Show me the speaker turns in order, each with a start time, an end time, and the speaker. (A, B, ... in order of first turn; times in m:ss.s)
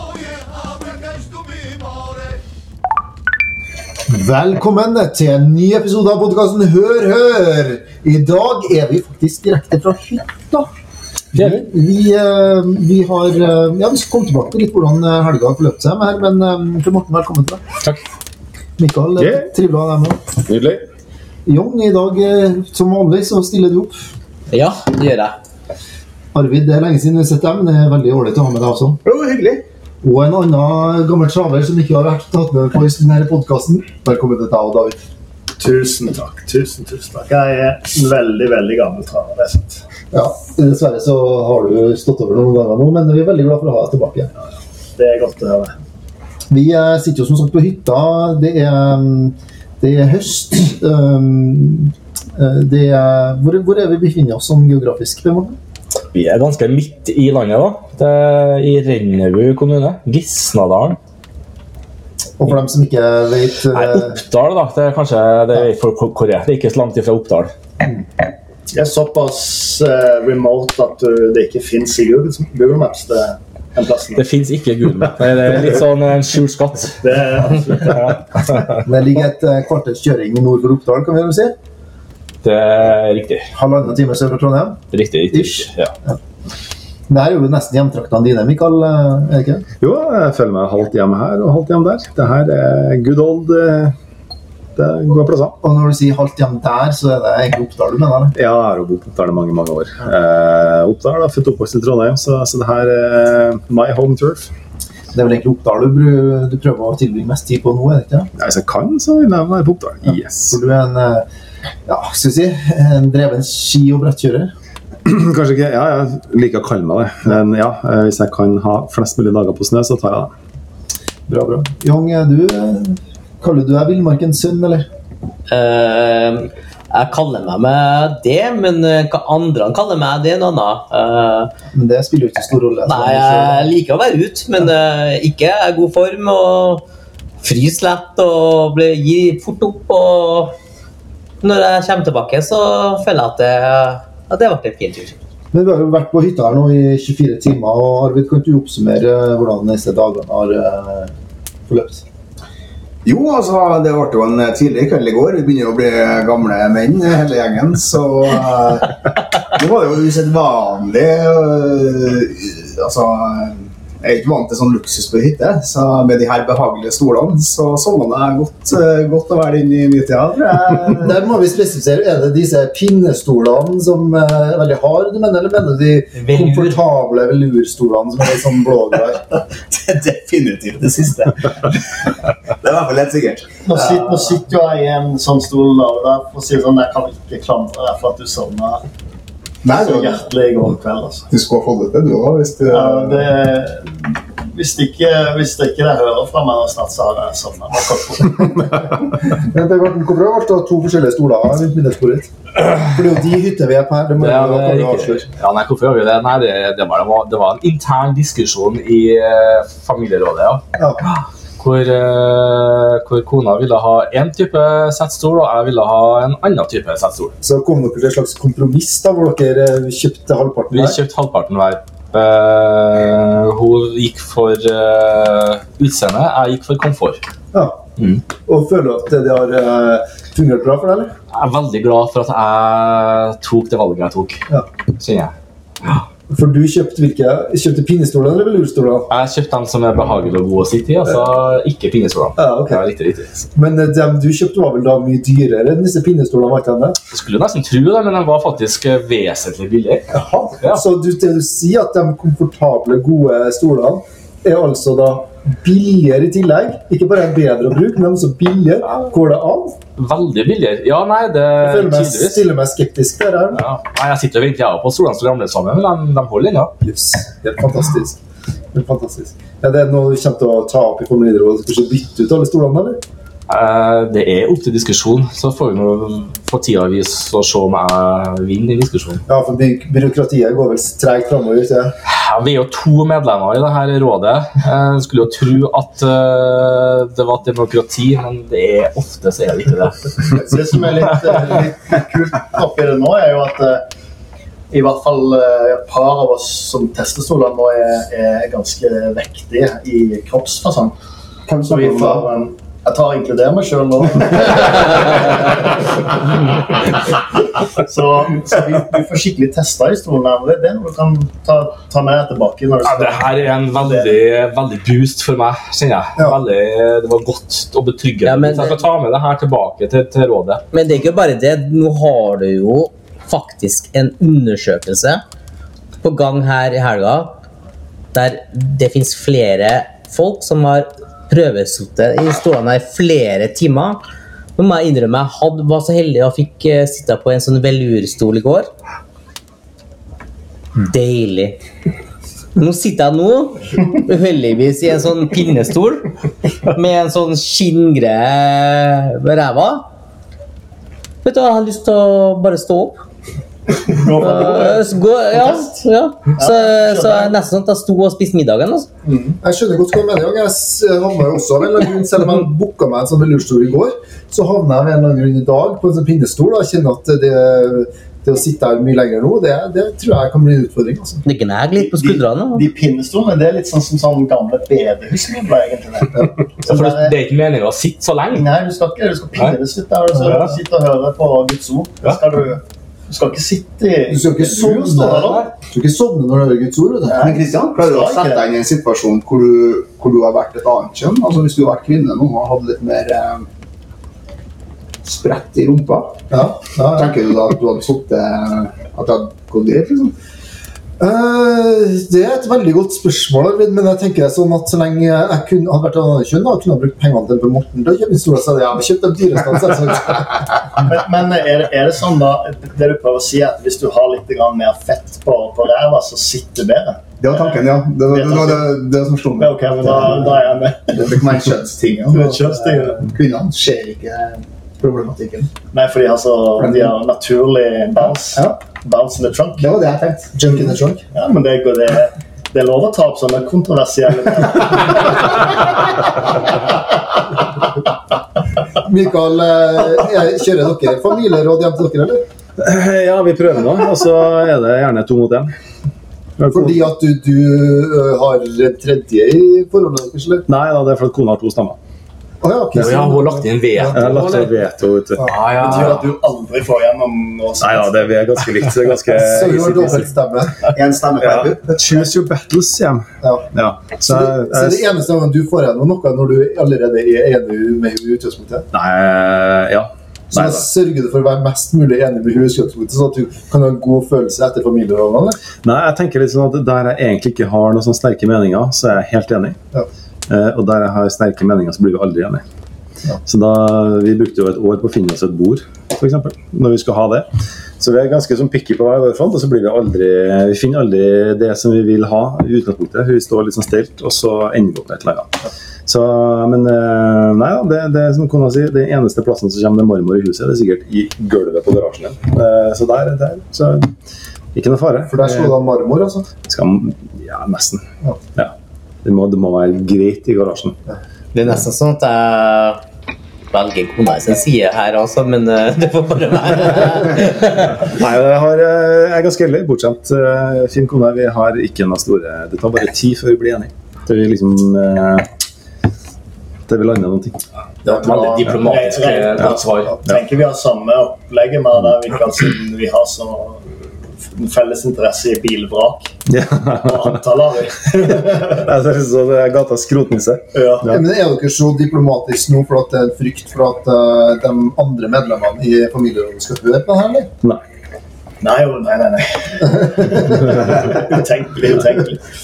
0:04.1-0:10.7 A
0:11.3-0:17.6 A
0:11.3-0:11.6 B
0:18.8-0:20.3 A
0:19.2-0:19.4 C
0:20.5-0:20.8 C
0:21.4-0:24.1 A
0:24.5-0:25.4 D
0:26.3-0:29.0 A
0:29.0-0:29.6 E
0:30.0-0:35.0 A
0:35.6-0:39.8 F
0:40.1-0:44.3 A
0:45.0-0:45.8 F
0:46.5-0:55.6 A
0:56.1-1:01.0 B
1:02.4-1:04.2 A
1:03.7-1:07.5 B
1:08.7-1:14.2 F
1:14.2-1:17.0 B
1:17.0-1:18.2 F
1:18.8-1:21.6 A
1:22.4-1:23.5 B
1:23.5-1:26.2 A
1:24.9-1:25.9 B
1:27.1-1:29.6 A
1:29.8-1:33.9 C
1:34.8-1:35.6 C
1:35.6-1:38.3 A
1:38.3-1:44.5 C
1:45.1-1:48.3 A
1:48.4-1:50.6 C
1:50.0-1:51.2 A
1:51.8-1:54.5 A
1:55.0-2:00.3 C
2:01.3-2:04.9 A
2:05.5-2:11.5 D
2:11.7-2:13.7 A
2:12.8-2:16.8 D
2:17.4-2:20.5 D
2:21.4-2:25.1 D
2:25.5-2:31.1 A
2:31.7-2:32.0 A
2:33.0-2:51.1 E
2:51.0-2:59.2 A
2:56.2-2:56.8 D
2:59.6-3:01.8 E
3:02.6-3:04.0 E
3:03.7-3:08.8 F
3:09.6-3:10.2 E
3:09.7-3:11.3 F
3:11.3-3:13.3 E
3:12.7-3:18.0 F
3:18.2-3:25.2 A
3:24.2-3:37.3 B
3:30.8-3:31.0 A
3:37.4-3:41.0 A
3:40.7-3:47.2 B
3:47.5-3:47.8 A
3:48.4-3:51.1 A
3:51.3-3:54.4 B
3:55.0-3:55.3 B
3:56.3-3:59.1 A
3:59.1-4:03.5 B
4:02.4-4:02.8 A
4:03.5-4:07.0 A
4:07.1-4:10.0 B
4:10.1-4:19.8 A
4:20.0-4:22.4 B
4:21.6-4:23.6 A
4:23.6-4:26.7 B
4:26.8-4:28.2 A
4:28.7-4:33.0 A
4:33.5-4:39.2 B
4:39.3-4:42.0 A
4:42.1-4:50.4 B
4:50.4-4:53.8 F
4:54.7-5:01.0 F
5:01.5-5:02.3 E
5:01.7-5:06.0 F
5:07.8-5:14.2 F
5:12.8-5:20.7 B
5:18.2-5:18.8 D
5:20.7-5:25.2 D
5:26.0-5:27.4 D
5:28.1-5:34.0 D
5:34.6-5:38.7 D
5:40.8-5:41.6 D
5:42.6-5:46.1 D
5:46.7-5:49.9 D
5:51.2-5:53.0 D
5:53.7-5:55.6 F
5:54.0-5:58.9 D
5:56.4-5:57.4 F
5:59.0-5:59.4 F
5:59.4-6:11.2 A
6:11.2-6:12.6 D
6:11.8-6:17.1 F
6:16.7-6:18.5 B
6:18.3-6:25.5 F
6:24.1-6:27.4 A
6:27.1-6:33.5 E
6:27.2-6:28.5 F
6:35.0-6:36.2 E
6:36.3-6:37.1 A
6:36.9-6:40.2 E
6:41.0-6:50.5 A
6:50.8-6:58.7 F
6:57.2-7:00.4 E
6:59.4-7:01.2 F
7:00.9-7:05.5 E
7:02.1-7:03.1 F
7:05.7-7:09.8 F
7:06.6-7:06.9 E
7:09.6-7:11.0 E
7:10.5-7:10.8 A
7:11.1-7:15.5 F
7:18.8-7:22.2 A
7:22.6-7:25.5 C
7:26.4-7:26.9 C
7:26.5-7:30.4 A
7:30.5-7:31.8 C
7:32.4-7:34.0 A
7:32.8-7:34.5 B
7:33.9-7:35.3 C
7:35.2-7:36.1 B
7:35.6-7:38.2 F
7:37.6-7:40.0 C
7:39.1-7:40.6 A
7:40.7-7:41.9 E
7:41.2-7:44.8 C
7:43.2-7:43.5 A
7:44.1-7:48.7 A
7:48.7-7:50.6 C
7:50.3-7:55.4 A
7:55.6-7:59.6 C
8:00.3-8:02.4 C
8:03.2-8:07.3 C
8:07.8-8:15.3 C
8:15.9-8:23.9 C
8:24.5-8:25.5 C
8:25.1-8:26.3 A
8:26.4-8:27.8 C
8:29.0-8:30.8 C
8:31.3-8:32.8 D
8:33.5-8:37.8 D
8:37.8-8:45.2 C
8:46.7-8:47.4 C
8:47.8-8:56.1 F
8:47.9-8:50.0 B
8:56.3-8:57.2 C
8:56.8-8:58.6 F
8:57.9-9:01.0 C
9:00.5-9:00.9 F
9:00.8-9:07.3 A
9:08.4-9:12.2 F
9:09.6-9:10.7 A